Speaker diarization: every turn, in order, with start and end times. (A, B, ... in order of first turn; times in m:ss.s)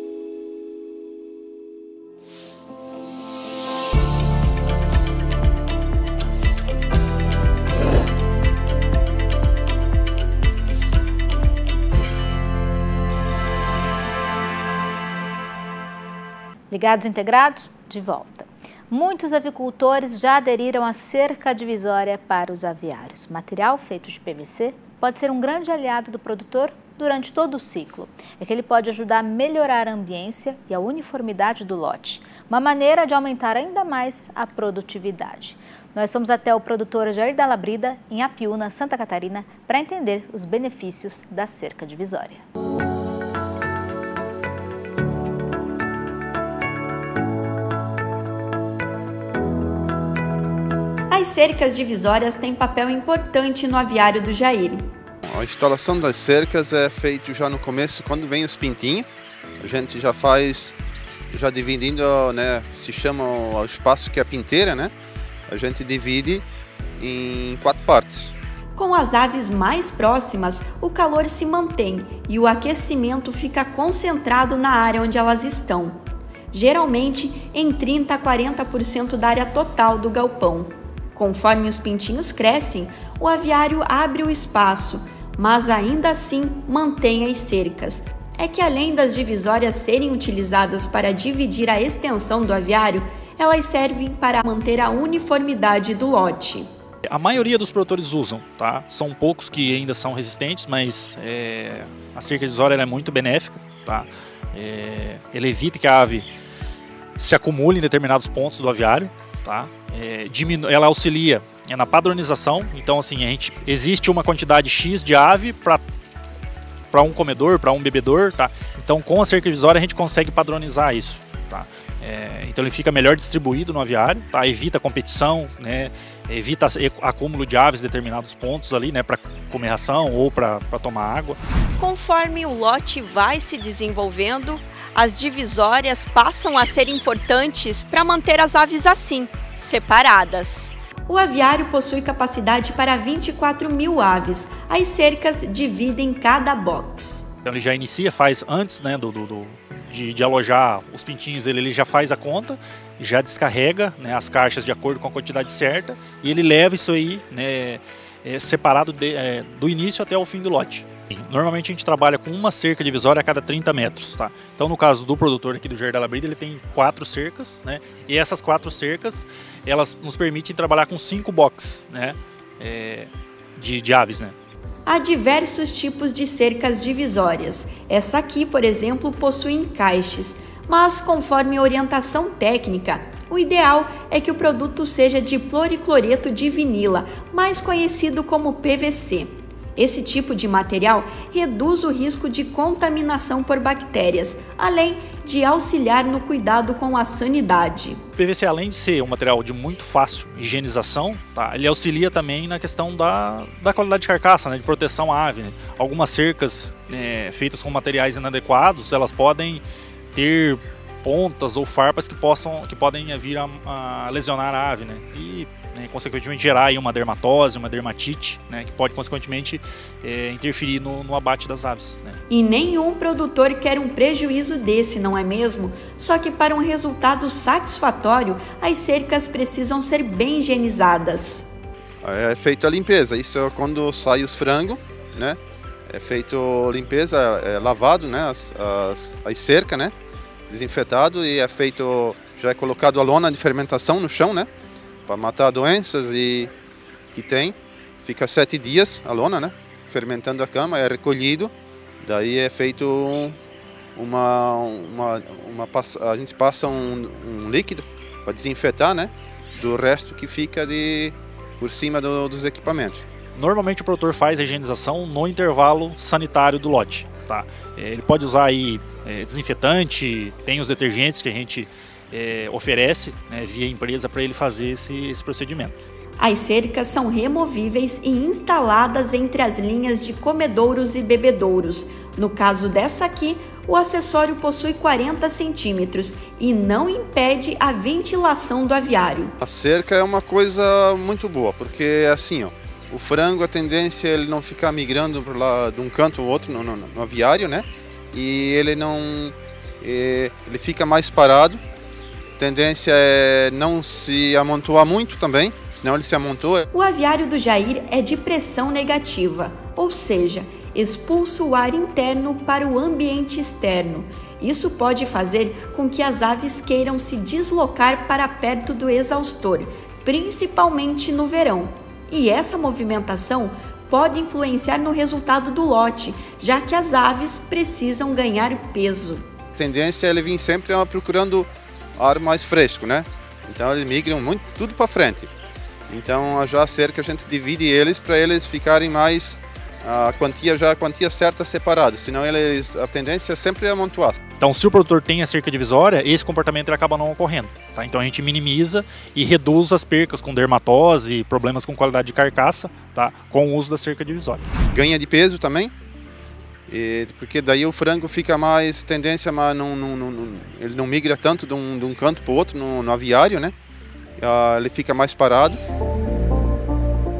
0:16.7-0:42.4 A
0:51.1-0:54.8 B
0:55.2-0:59.1 C
0:59.6-1:00.8 C
1:01.3-1:04.9 C
1:05.5-1:06.4 C
1:07.0-1:08.3 C
1:08.8-1:16.0 B
1:16.5-1:36.6 B
1:37.1-1:46.3 D
1:47.2-1:55.8 D
1:56.9-2:11.4 D
2:11.8-2:27.3 B
2:27.4-2:54.3 D
2:54.8-3:18.0 B
3:18.2-3:29.6 D
3:30.1-3:42.2 D
3:42.3-3:51.5 B
3:52.0-3:59.9 C
4:00.5-4:04.5 C
4:05.1-4:06.5 C
4:07.1-4:13.4 C
4:14.0-4:23.0 C
4:23.3-4:35.7 D
4:36.2-4:49.3 B
4:49.4-5:01.6 C
5:02.4-5:06.6 C
5:06.7-5:29.2 B
5:29.6-5:35.3 C
5:35.9-5:44.2 C
5:44.4-5:54.5 D
5:54.7-5:55.7 C
5:56.7-6:03.6 C
6:04.2-6:05.6 C